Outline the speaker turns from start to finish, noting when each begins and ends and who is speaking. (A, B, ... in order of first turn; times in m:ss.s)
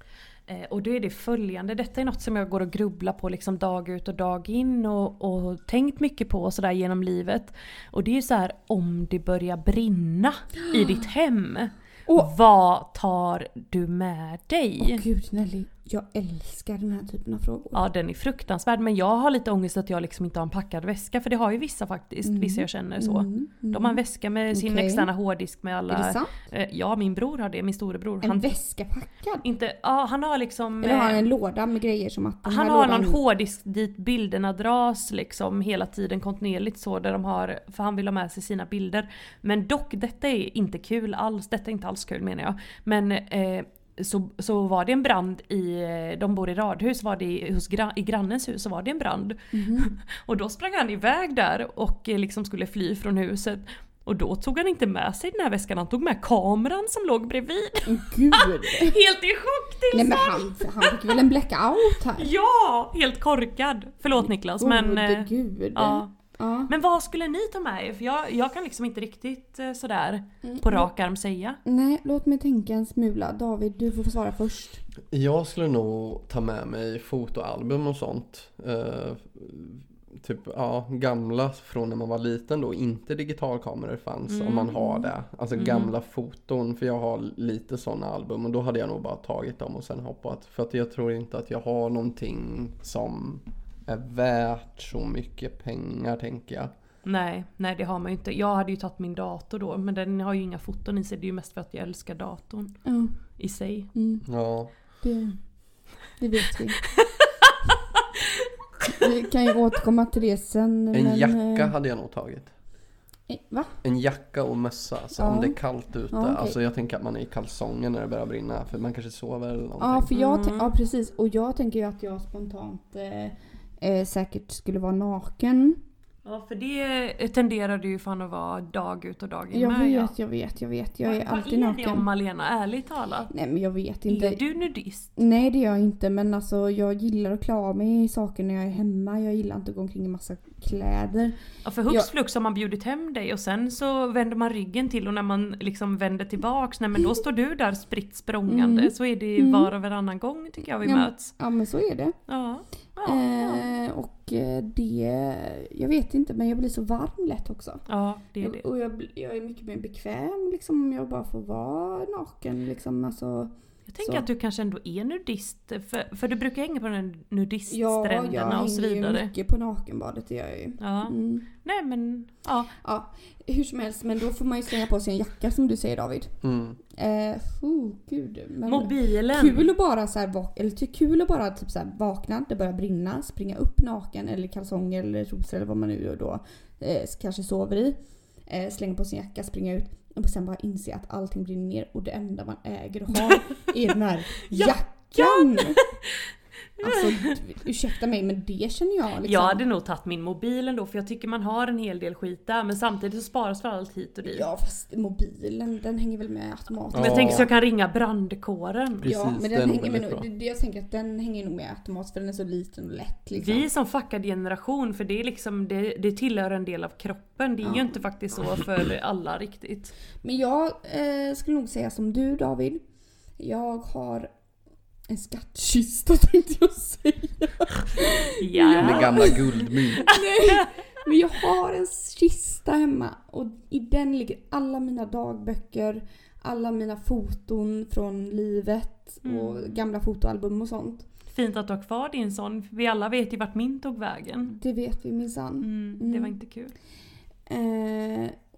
0:00.5-0:15.0 A
0:10.6-0:11.0 B
0:14.8-0:17.8 B
0:17.7-0:28.6 A
0:22.2-0:25.1 B
0:25.9-0:26.4 B
0:28.2-0:29.5 B
0:29.4-0:31.3 A
0:30.8-0:33.2 B
0:32.4-1:01.2 A
0:49.5-0:49.9 B
0:57.9-0:59.0 B
0:59.9-1:02.3 B
1:02.2-1:06.1 A
1:04.2-1:06.7 B
1:06.7-1:11.6 A
1:10.4-1:10.9 B
1:11.6-1:14.8 B
1:15.1-1:36.7 C
1:24.3-1:24.9 A
1:25.6-1:25.9 A
1:37.0-1:42.8 A
1:42.9-1:43.1 B
1:43.4-1:43.9 A
1:44.0-1:44.2 B
1:44.2-1:44.7 C
1:45.0-1:45.4 B
1:46.2-1:46.8 B
1:47.0-1:47.5 A
1:48.8-1:51.7 B
1:50.9-1:52.5 C
1:53.3-1:53.7 B
1:53.8-2:00.1 C
1:55.2-1:55.6 B
1:56.1-1:56.6 B
1:59.8-2:05.8 B
2:00.1-2:00.7 A
2:06.2-2:10.1 A
2:09.5-2:12.1 B
2:11.0-2:13.3 A
2:13.3-2:14.4 B
2:14.1-2:15.2 A
2:15.2-2:22.1 B
2:21.6-2:31.3 A
2:28.5-2:29.7 B
2:30.8-2:32.2 B
2:32.3-2:33.7 A
2:33.0-2:37.8 B
2:37.9-2:38.6 A
2:38.4-2:43.5 B
2:43.9-2:49.3 A
2:47.7-2:51.5 B
2:50.8-2:52.7 A
2:52.8-2:56.4 B
2:56.4-2:56.8 C
2:56.9-3:15.8 B
2:58.7-2:59.7 A
3:14.5-3:16.0 A
3:16.8-3:17.3 A
3:16.8-3:19.6 B
3:19.2-3:24.5 A
3:24.2-3:27.5 B
3:26.9-3:27.5 C
3:26.9-3:29.1 A
3:29.0-3:30.3 C
3:29.1-3:33.7 B
3:33.4-3:39.9 A
3:37.6-3:38.0 B
3:40.2-3:42.8 B
3:43.4-3:44.3 B
3:45.1-4:01.1 B
3:48.4-3:49.5 A
3:48.8-3:50.1 C
3:50.3-3:50.7 A
3:59.2-3:59.6 A
4:01.3-4:04.6 A
4:04.5-4:06.4 B
4:05.6-4:06.7 A
4:07.5-4:08.4 B